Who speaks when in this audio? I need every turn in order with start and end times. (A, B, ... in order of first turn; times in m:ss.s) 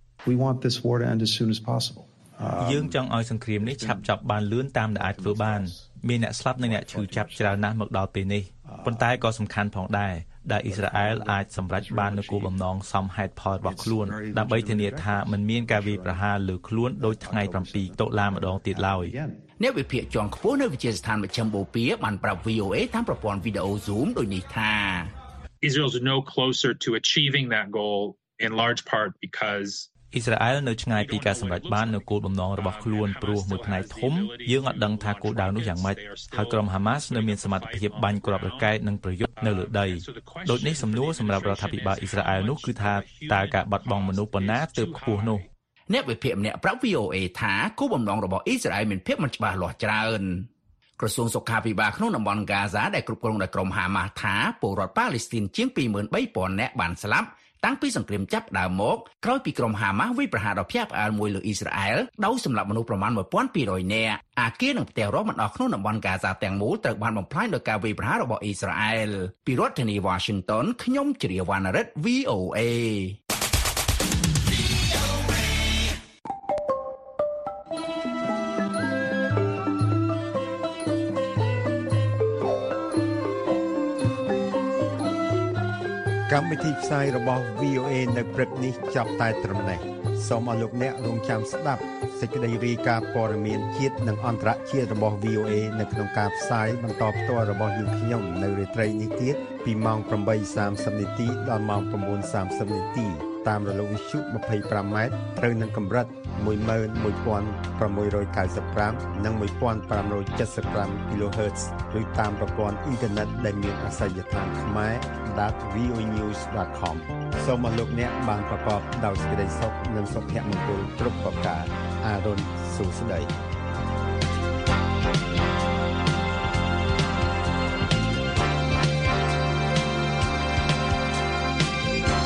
0:00.2-0:04.2 A
0:02.6-0:19.2 B
0:04.8-0:07.7 A
0:08.6-0:09.3 A
0:10.6-0:12.7 A
0:13.6-0:19.4 A
0:19.6-0:25.1 C
0:25.6-0:29.9 D
0:30.1-0:45.5 B
0:30.9-0:38.8 D
0:39.4-0:45.4 D
0:45.9-1:13.2 C
1:26.3-2:03.3 E